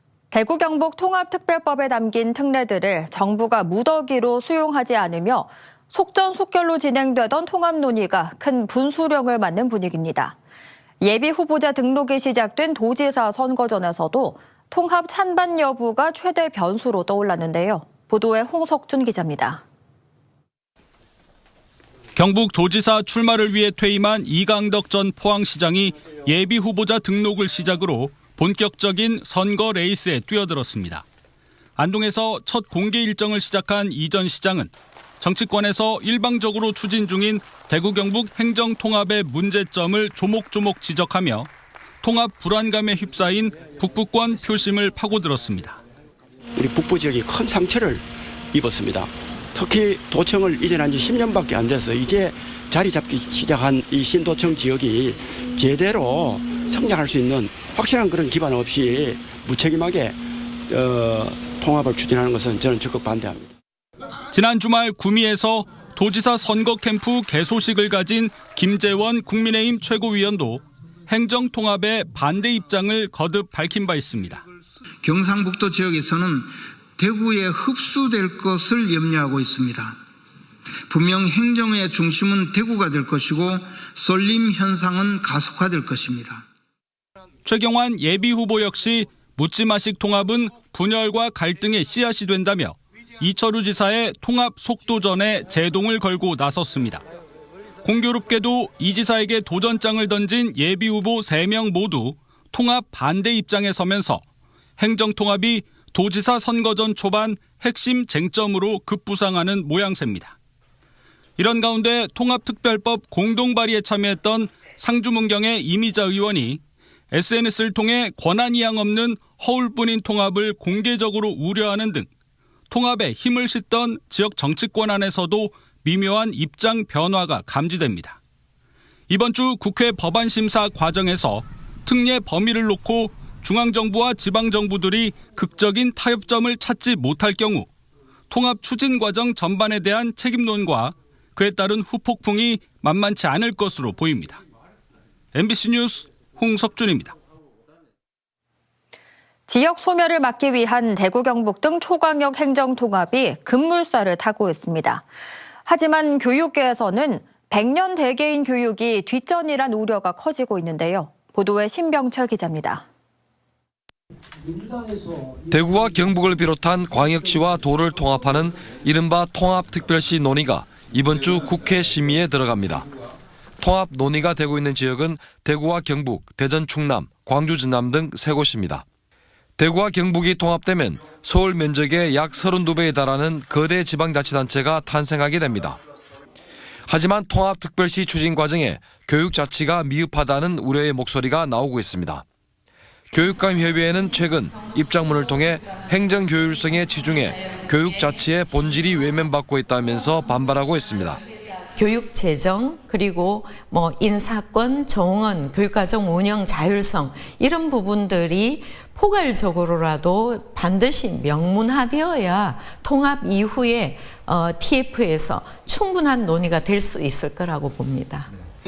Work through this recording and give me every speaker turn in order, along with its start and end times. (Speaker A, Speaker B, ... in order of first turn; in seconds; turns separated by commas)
Speaker A: 0.3-10.3, Speaker A: 11.0-19.6, Speaker B: 22.1-31.0, Speaker B: 31.8-41.5, Speaker B: 42.0-45.8, Speaker C: 46.5-60.2, Speaker C: 60.7-63.5, Speaker B: 64.3-74.4, Speaker D: 75.0-76.4, Speaker D: 77.0-79.9, Speaker D: 80.9-86.3, Speaker B: 87.4-97.0, Speaker B: 97.8-104.2, Speaker B: 104.8-110.3, Speaker B: 111.4-116.6, Speaker B: 117.1-122.1, Speaker B: 122.7-128.2, Speaker B: 129.1-137.7, Speaker B: 138.3-144.4, Speaker B: 145.3-147.1, Speaker A: 149.5-155.0, Speaker A: 155.7-162.8, Speaker E: 165.5-172.8, Speaker E: 173.6-178.8, Speaker E: 179.6-185.8, Speaker E: 186.9-192.2, Speaker E: 193.1-201.2, Speaker F: 201.8-218.3